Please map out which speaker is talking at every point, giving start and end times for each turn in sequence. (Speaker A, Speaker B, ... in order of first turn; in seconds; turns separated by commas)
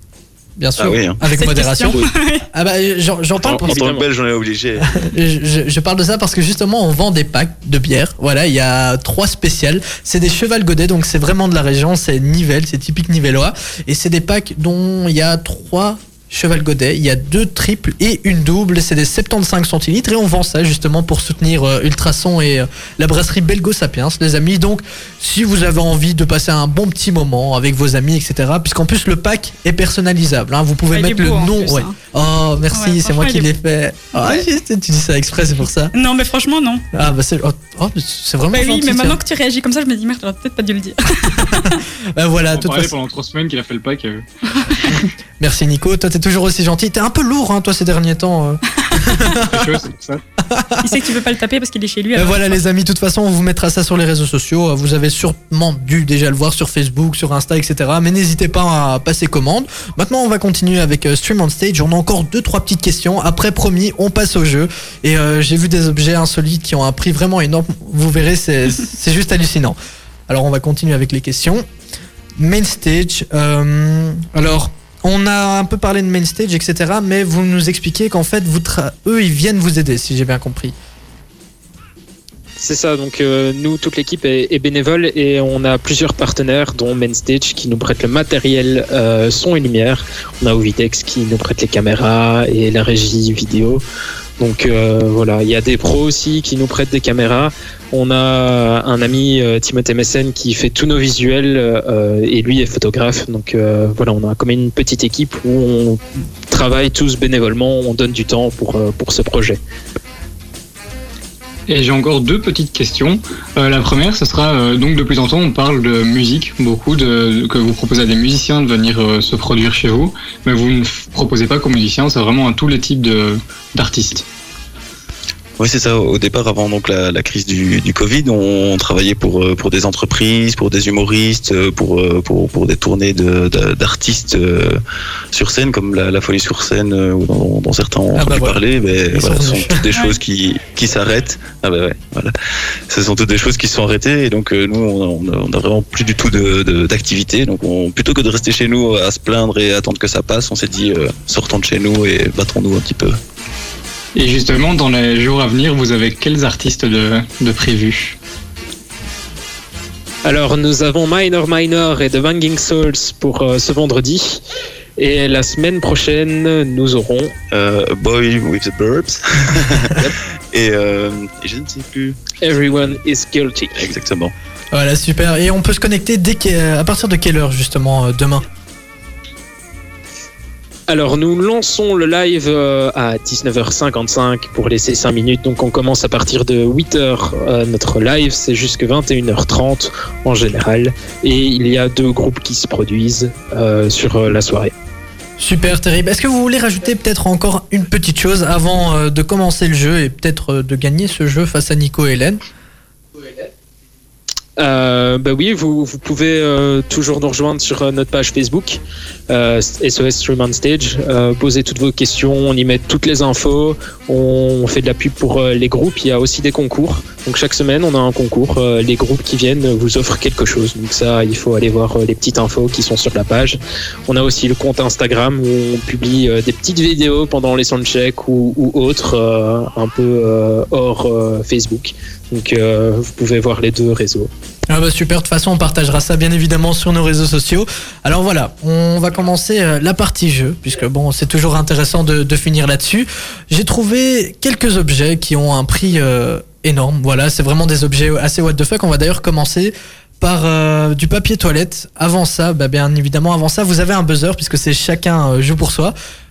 Speaker A: 0.6-3.8, Speaker B: 0.8-1.2, Speaker C: 1.3-2.5, Speaker D: 3.4-4.0, Speaker B: 3.5-4.9, Speaker A: 4.9-35.9, Speaker C: 30.9-32.0, Speaker C: 32.7-33.5, Speaker C: 34.2-34.4, Speaker C: 35.9-36.9, Speaker A: 36.9-39.2, Speaker C: 38.5-41.8, Speaker A: 41.4-42.9, Speaker E: 42.5-44.2, Speaker C: 44.5-44.9, Speaker A: 45.4-49.8, Speaker C: 48.9-49.2, Speaker E: 49.4-50.2, Speaker A: 50.4-51.0, Speaker C: 50.8-52.6, Speaker A: 52.1-69.8, Speaker A: 70.3-71.7, Speaker A: 72.4-80.7, Speaker D: 82.6-93.8, Speaker D: 94.4-109.6, Speaker E: 111.7-124.2, Speaker B: 125.6-134.8, Speaker B: 135.3-142.3, Speaker A: 138.2-138.6, Speaker A: 139.1-139.8, Speaker C: 139.9-140.2, Speaker B: 142.9-153.2, Speaker E: 154.1-158.2, Speaker D: 160.2-164.4, Speaker D: 165.0-167.3, Speaker B: 167.5-172.3, Speaker D: 172.4-173.8, Speaker B: 173.7-174.3, Speaker A: 174.7-178.4, Speaker D: 180.9-194.7, Speaker A: 195.4-202.4, Speaker D: 204.6-234.3, Speaker A: 234.7-255.9